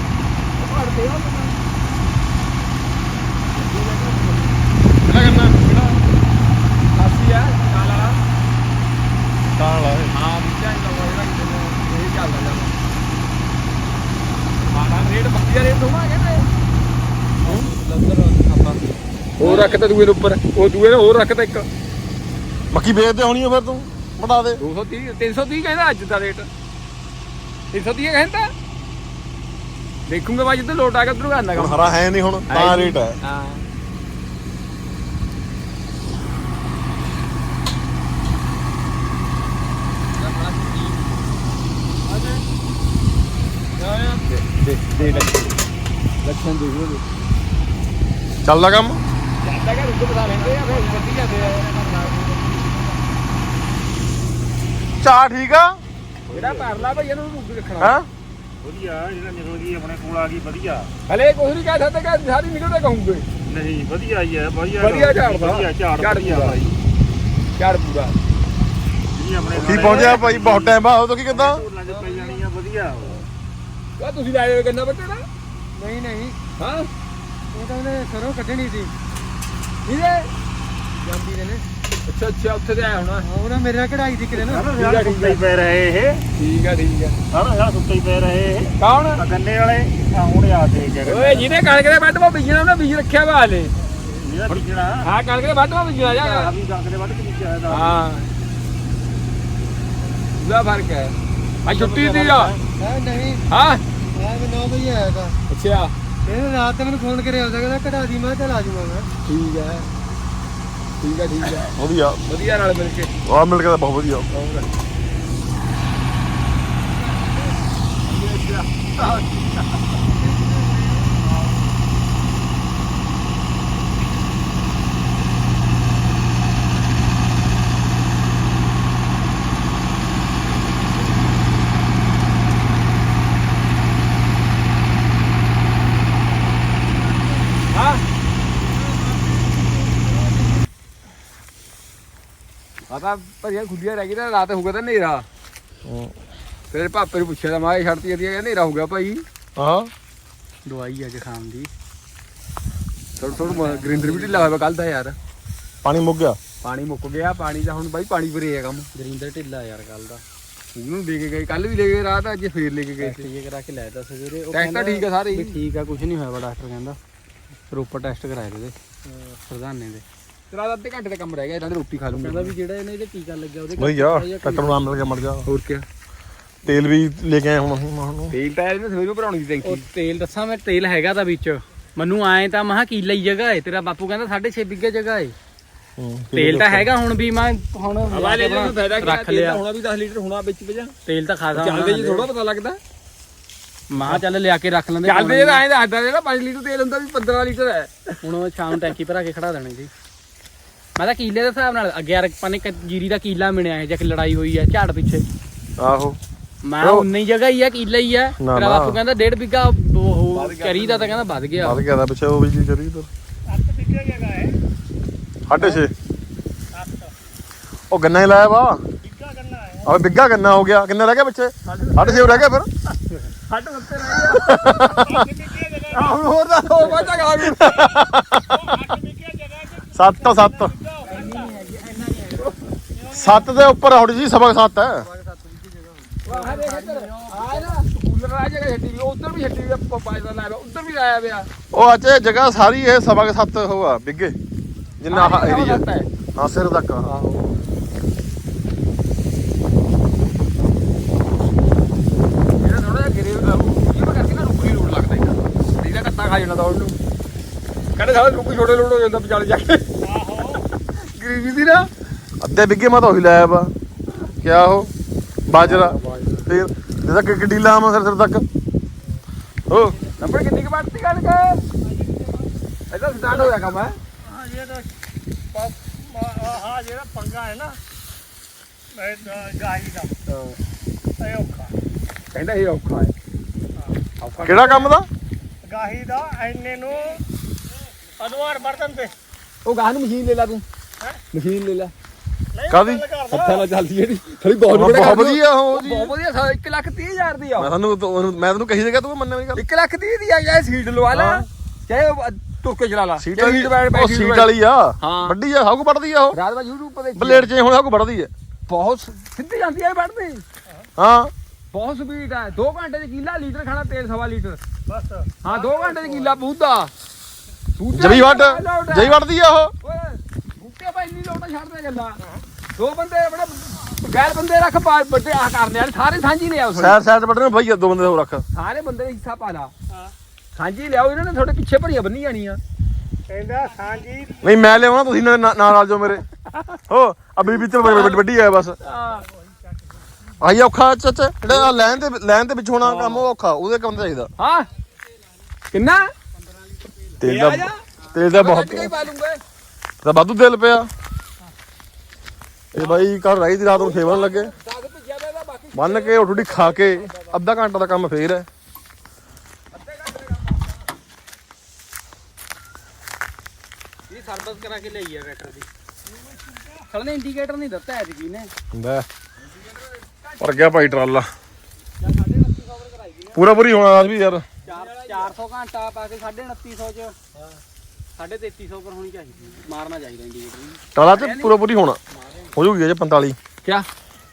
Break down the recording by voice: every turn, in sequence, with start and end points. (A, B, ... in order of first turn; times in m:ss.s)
0:00.6-0:01.6 A
0:03.5-0:04.6 A
0:05.0-0:05.6 B
0:05.6-0:05.9 A
0:06.9-0:08.2 A
0:09.5-0:10.1 B
0:10.1-0:12.7 A
0:14.7-0:16.5 A
0:17.4-0:19.8 C
0:19.4-0:21.6 A
0:22.7-0:24.6 B
0:24.6-0:26.5 A
0:27.7-0:28.5 A
0:30.1-0:31.9 A
0:31.5-0:33.2 B
0:32.5-0:33.6 A
0:40.2-0:41.3 C
0:43.8-0:45.5 A
0:45.0-0:45.5 C
0:46.2-0:47.0 A
0:48.4-0:49.0 B
0:49.4-0:51.6 A
0:50.2-0:53.2 C
0:55.0-0:55.8 B
0:56.3-0:57.1 D
0:56.3-0:58.0 A
0:57.8-0:58.1 B
0:58.6-1:00.9 D
1:01.1-1:03.2 A
1:03.4-1:06.8 D
1:04.8-1:06.6 A
1:07.6-1:08.1 A
1:09.1-1:13.2 D
1:09.5-1:11.6 B
1:09.6-1:10.2 A
1:11.9-1:12.4 A
1:14.0-1:15.2 A
1:15.8-1:16.3 D
1:16.6-1:16.9 A
1:17.5-1:18.9 D
1:18.4-1:18.8 E
1:19.9-1:20.3 A
1:22.1-1:23.3 A
1:23.2-1:26.2 D
1:24.3-1:24.6 C
1:24.6-1:25.4 A
1:26.4-1:27.1 A
1:27.3-1:31.5 D
1:28.8-1:29.2 A
1:31.0-1:33.7 A
1:34.1-1:35.1 D
1:34.5-1:36.5 A
1:36.0-1:38.0 D
1:37.7-1:38.2 A
1:40.4-1:41.1 A
1:41.6-1:42.5 A
1:41.7-1:42.6 D
1:42.8-1:43.3 E
1:43.5-1:43.8 A
1:44.2-1:45.3 E
1:44.2-1:45.3 D
1:45.5-1:45.9 A
1:46.2-1:49.1 E
1:49.3-1:49.9 A
1:51.0-1:51.7 A
1:51.6-1:52.2 B
1:52.2-1:53.1 A
1:53.2-1:54.3 B
1:54.3-1:54.6 A
1:58.0-2:00.0 A
2:00.2-2:01.2 D
2:17.7-2:18.0 A
2:22.9-2:25.2 A
2:25.8-2:26.1 B
2:26.7-2:29.2 A
2:29.6-2:29.9 B
2:30.6-2:31.7 C
2:33.2-2:35.2 A
2:33.2-2:34.5 C
2:35.8-2:36.4 B
2:36.6-2:38.9 A
2:38.9-2:40.2 C
2:40.8-2:43.2 A
2:43.0-2:47.0 C
2:44.5-2:45.5 A
2:47.7-2:48.8 C
2:49.5-2:50.0 C
2:50.5-2:52.5 A
2:52.1-2:54.9 C
2:53.8-2:55.5 B
2:55.4-2:55.8 A
2:56.6-2:58.3 B
2:58.3-2:59.8 A
2:59.6-3:05.4 C
3:06.0-3:06.9 B
3:06.3-3:09.6 C
3:08.1-3:10.9 A
3:11.0-3:12.3 C
3:11.5-3:12.8 A
3:13.9-3:15.6 C
3:15.0-3:18.2 A
3:18.2-3:19.9 C
3:21.0-3:25.2 C
3:25.8-3:26.2 B
3:26.6-3:31.8 C
3:26.8-3:27.1 B
3:28.4-3:29.0 B
3:30.3-3:31.2 A
3:31.6-3:33.1 B
3:33.5-3:34.6 D
3:35.5-3:35.9 B
3:36.7-3:37.1 D
3:37.9-3:38.8 B
3:39.0-3:40.0 D
3:39.8-3:42.7 B
3:41.7-3:42.4 A
3:43.5-3:44.8 A
3:44.4-3:45.3 B
3:44.8-3:46.2 D
3:45.9-3:47.9 A
3:46.6-3:47.1 C
3:47.4-3:49.0 B
3:47.8-3:51.5 D
3:49.9-3:50.7 B
3:51.0-3:52.6 C
3:52.9-3:53.4 D
3:53.1-3:55.1 B
3:55.0-3:57.8 C
3:56.2-4:01.5 A
4:01.7-4:04.4 B
4:05.0-4:05.8 B
4:05.1-4:06.1 A
4:06.4-4:07.1 B
4:07.0-4:07.5 A
4:12.6-4:17.0 A
4:18.0-4:19.9 A
4:20.0-4:20.6 D
4:21.0-4:21.9 A
4:22.4-4:23.7 B
4:24.4-4:24.9 B
4:25.5-4:28.4 B
4:25.6-4:26.2 A
4:29.7-4:30.0 B
4:30.2-4:31.6 A
4:32.9-4:34.0 A
4:34.2-4:34.9 D
4:35.5-4:37.8 D
4:38.9-4:40.1 D
4:40.3-4:40.6 A
4:41.2-4:41.7 D
4:42.3-4:43.1 A
4:44.2-4:44.9 A
4:44.4-4:45.1 B
4:45.6-4:47.2 D
4:48.2-4:49.1 D
4:49.6-4:50.6 A
4:51.3-4:51.9 A
4:52.5-4:53.6 D
4:52.7-4:53.0 B
4:53.3-4:57.7 A
4:54.7-4:56.1 B
4:57.6-4:59.6 B
4:59.6-5:04.5 A
5:01.1-5:01.4 B
5:03.2-5:06.4 B
5:05.0-5:05.4 A
5:06.3-5:07.5 A
5:07.2-5:08.3 B
5:08.7-5:10.4 A
5:11.0-5:11.3 B
5:11.7-5:14.6 A
5:14.9-5:16.4 D
5:15.4-5:16.9 A
5:17.8-5:19.2 A
5:17.9-5:19.7 B
5:19.8-5:22.2 A
5:22.8-5:27.0 A
5:26.8-5:28.4 B
5:28.5-5:29.7 A
5:30.6-5:32.6 A
5:33.3-5:34.4 D
5:34.4-5:36.2 B
5:36.9-5:38.8 B
5:37.8-5:38.2 A
5:38.8-5:39.2 A
5:39.2-5:39.8 D
5:40.4-5:44.3 B
5:41.5-5:42.0 A
5:42.8-5:43.3 A
5:44.4-5:44.7 A
5:45.7-5:46.1 A
5:46.4-5:47.2 C
5:47.2-5:48.9 B
5:47.2-5:49.4 A
5:50.0-5:50.9 B
5:52.7-5:54.5 B
5:52.8-5:53.0 A
5:53.6-5:57.3 A
5:55.7-5:58.5 B
5:59.7-6:00.8 A
6:04.1-6:05.7 C
6:06.9-6:08.5 C
6:08.7-6:09.1 B
6:09.5-6:11.0 A
6:10.4-6:11.3 B
6:12.0-6:13.4 C
6:13.3-6:14.5 B
6:14.6-6:17.2 C
6:14.6-6:15.3 A
6:18.2-6:21.6 C
6:21.0-6:22.0 B
6:22.1-6:22.5 C
6:22.6-6:23.4 B